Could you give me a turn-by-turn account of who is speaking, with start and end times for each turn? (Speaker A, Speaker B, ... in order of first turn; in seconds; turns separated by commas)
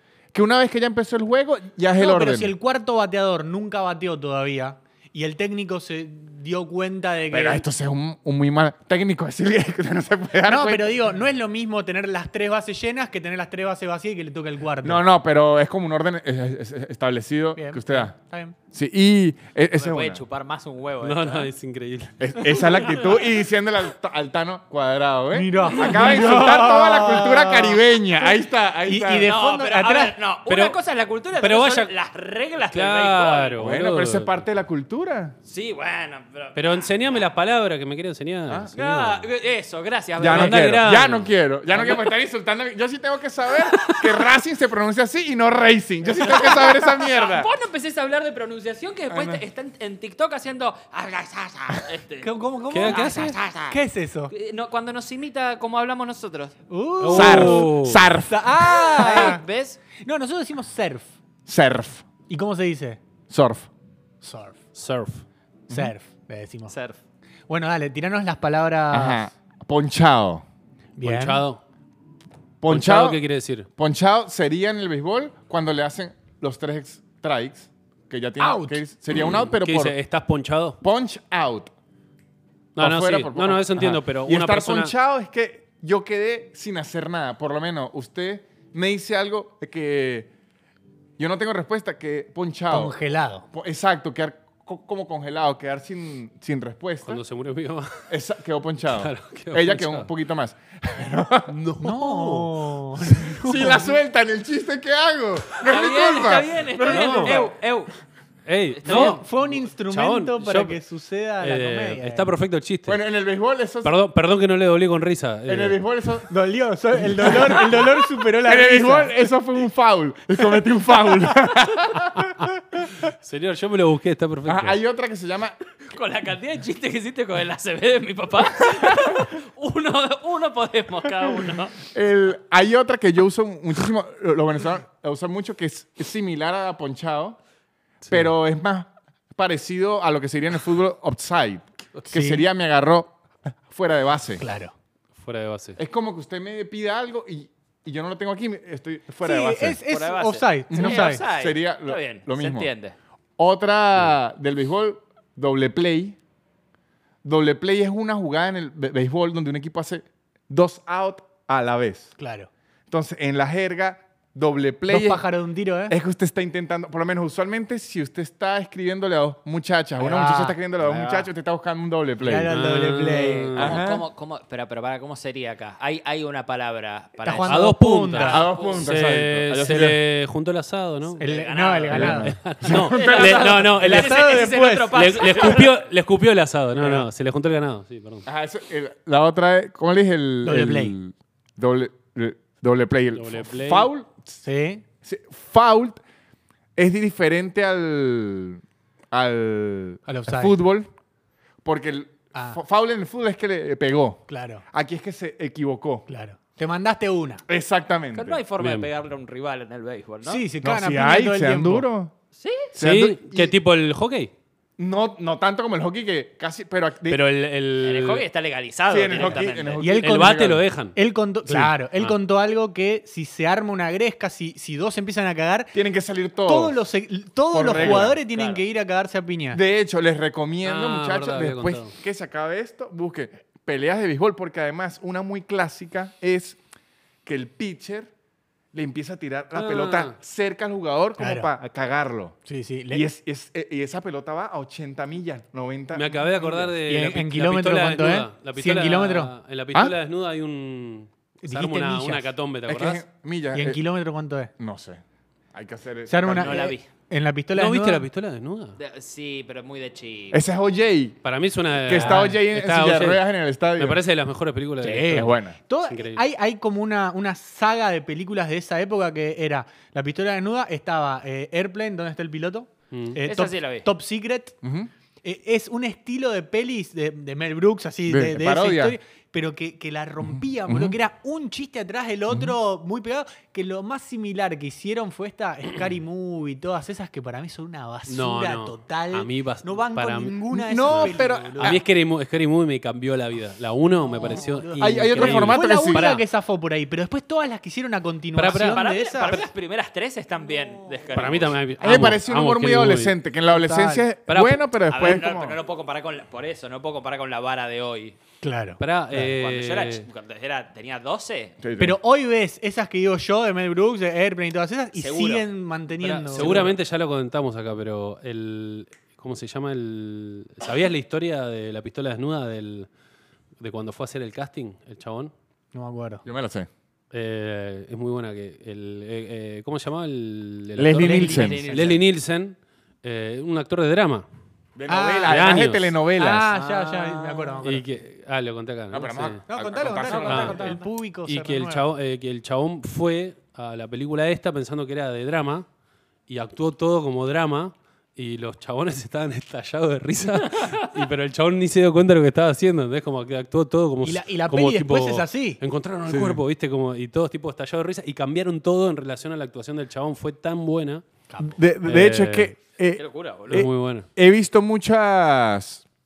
Speaker A: 0.3-2.5, Speaker B: 2.0-7.7, Speaker A: 7.3-10.9, Speaker B: 10.4-15.0, Speaker A: 14.8-18.1, Speaker B: 17.6-18.6, Speaker A: 18.7-20.2, Speaker C: 19.8-21.5, Speaker D: 21.0-22.6, Speaker A: 22.2-29.3, Speaker B: 25.3-28.3, Speaker B: 28.9-30.2, Speaker C: 29.2-33.8, Speaker D: 30.5-30.8, Speaker D: 31.4-31.9, Speaker D: 32.6-34.4, Speaker A: 33.6-35.4, Speaker C: 35.5-37.2, Speaker D: 36.5-39.3, Speaker C: 38.8-41.0, Speaker A: 40.2-47.5, Speaker D: 40.3-41.3, Speaker C: 41.7-42.1, Speaker D: 43.8-44.0, Speaker C: 46.2-52.3, Speaker A: 49.1-49.4, Speaker B: 52.2-54.3, Speaker D: 52.7-53.4, Speaker C: 52.9-56.6, Speaker B: 56.7-59.4, Speaker D: 57.0-58.1, Speaker A: 57.1-59.4, Speaker C: 58.9-59.8, Speaker B: 60.0-61.1, Speaker A: 61.5-62.0, Speaker B: 62.3-63.0, Speaker A: 63.3-63.7, Speaker B: 64.2-64.6, Speaker D: 64.8-65.2, Speaker B: 65.7-66.8, Speaker C: 66.7-67.0, Speaker B: 67.5-69.3, Speaker A: 68.9-70.5, Speaker B: 71.0-71.4, Speaker D: 71.0-71.6, Speaker A: 72.6-73.2, Speaker D: 72.7-73.7, Speaker A: 73.8-80.0, Speaker B: 78.4-78.8, Speaker D: 79.5-80.8, Speaker A: 80.8-81.7, Speaker D: 82.8-84.9, Speaker A: 82.8-90.3, Speaker A: 91.2-93.0, Speaker B: 92.7-93.5, Speaker A: 93.5-97.2, Speaker D: 97.0-98.0, Speaker A: 98.1-101.5, Speaker D: 98.9-100.1, Speaker D: 101.5-103.8, Speaker B: 101.8-103.9, Speaker A: 103.3-107.5, Speaker C: 105.7-107.9, Speaker D: 106.8-107.4, Speaker D: 108.5-110.8, Speaker C: 108.8-109.2, Speaker B: 108.8-112.3, Speaker D: 111.4-113.0, Speaker A: 112.9-113.9, Speaker D: 113.8-115.8, Speaker A: 115.5-116.3, Speaker B: 116.3-119.1, Speaker A: 117.0-117.9, Speaker A: 118.4-122.8, Speaker D: 123.0-124.8, Speaker A: 124.5-125.6, Speaker C: 125.8-131.8, Speaker A: 131.9-137.4, Speaker D: 138.0-138.3, Speaker A: 138.1-144.4, Speaker B: 142.1-142.5, Speaker B: 144.4-144.7, Speaker D: 145.2-145.8, Speaker A: 145.8-149.8, Speaker B: 149.2-151.2, Speaker C: 149.9-152.9, Speaker A: 150.7-152.7, Speaker A: 153.4-156.2, Speaker A: 157.2-162.1, Speaker B: 162.2-162.5, Speaker A: 162.9-165.3, Speaker B: 164.9-166.0, Speaker A: 165.9-172.5, Speaker B: 170.0-170.6, Speaker C: 170.8-171.3, Speaker B: 172.2-173.6, Speaker D: 172.5-173.8, Speaker C: 173.5-177.5, Speaker A: 173.6-174.1, Speaker B: 177.2-178.5, Speaker D: 177.4-181.2, Speaker A: 178.2-180.0, Speaker C: 178.3-178.8, Speaker C: 181.2-182.1, Speaker B: 181.2-185.6, Speaker D: 181.9-188.2, Speaker A: 181.9-183.2, Speaker C: 182.7-185.7, Speaker B: 186.8-187.1, Speaker A: 188.3-194.4, Speaker B: 190.4-191.0, Speaker D: 193.2-193.9, Speaker B: 194.4-194.8, Speaker A: 195.0-196.0, Speaker A: 196.8-200.9, Speaker B: 200.1-200.6, Speaker A: 201.6-206.1, Speaker B: 202.3-202.6, Speaker B: 204.3-204.6, Speaker B: 206.1-207.4, Speaker A: 207.5-208.4, Speaker C: 208.1-210.4, Speaker D: 208.6-208.9, Speaker B: 210.2-211.9, Speaker A: 210.6-212.1, Speaker C: 212.3-212.7, Speaker A: 212.7-213.5, Speaker D: 212.8-214.3, Speaker A: 214.8-217.2, Speaker D: 217.1-218.2, Speaker C: 217.8-219.9, Speaker A: 218.9-220.7, Speaker B: 219.8-225.7, Speaker D: 220.0-222.1, Speaker A: 225.7-226.8, Speaker B: 226.5-229.6, Speaker A: 227.5-228.2, Speaker C: 227.8-228.6, Speaker A: 229.5-236.6, Speaker D: 230.6-231.9, Speaker A: 237.2-238.1, Speaker A: 238.7-242.4, Speaker D: 239.6-240.2, Speaker B: 241.2-241.5, Speaker B: 242.5-243.1, Speaker A: 242.9-246.7, Speaker D: 245.9-253.0, Speaker B: 246.9-249.3, Speaker B: 251.4-252.3, Speaker A: 252.7-253.8, Speaker B: 253.5-254.5, Speaker A: 254.6-255.0, Speaker A: 255.5-256.6, Speaker B: 256.1-258.1, Speaker C: 256.3-256.9, Speaker D: 257.5-258.8, Speaker C: 258.8-260.4, Speaker A: 260.3-261.2, Speaker D: 261.2-263.2, Speaker A: 261.7-264.0, Speaker B: 261.9-262.4, Speaker D: 263.8-265.4, Speaker B: 264.8-274.6, Speaker A: 265.1-265.6, Speaker D: 265.9-266.2, Speaker D: 272.9-273.2, Speaker C: 273.2-273.9, Speaker A: 274.6-274.9, Speaker B: 275.2-291.8, Speaker A: 278.1-279.0, Speaker A: 280.3-281.0, Speaker A: 282.3-282.6, Speaker D: 288.1-296.2, Speaker A: 290.5-291.8, Speaker B: 294.0-299.4, Speaker A: 294.8-296.1, Speaker D: 298.4-299.5, Speaker C: 298.6-301.6, Speaker D: 301.1-303.2, Speaker A: 301.8-305.6, Speaker B: 303.5-304.1, Speaker D: 304.3-304.6, Speaker C: 304.9-308.2, Speaker B: 308.4-308.8, Speaker D: 308.8-310.1, Speaker C: 309.1-311.6, Speaker A: 311.6-312.0, Speaker B: 311.8-316.8, Speaker C: 314.9-315.5, Speaker D: 316.0-322.9, Speaker D: 323.6-325.3, Speaker B: 325.7-326.2, Speaker A: 326.2-326.7, Speaker D: 327.1-334.3, Speaker A: 330.8-331.8, Speaker B: 331.0-331.7, Speaker C: 331.0-332.1, Speaker A: 334.8-336.5, Speaker B: 334.9-335.6, Speaker D: 335.3-336.0, Speaker B: 336.2-337.8, Speaker D: 336.5-339.4, Speaker A: 338.9-340.8, Speaker B: 339.5-341.9, Speaker C: 339.8-340.8, Speaker D: 340.1-340.7, Speaker D: 341.2-345.7, Speaker D: 346.3-361.0, Speaker C: 350.5-350.9, Speaker B: 354.0-355.6, Speaker A: 356.1-356.4, Speaker B: 361.3-361.6, Speaker A: 361.4-365.8, Speaker D: 361.9-362.5, Speaker C: 363.0-363.7, Speaker D: 363.5-364.1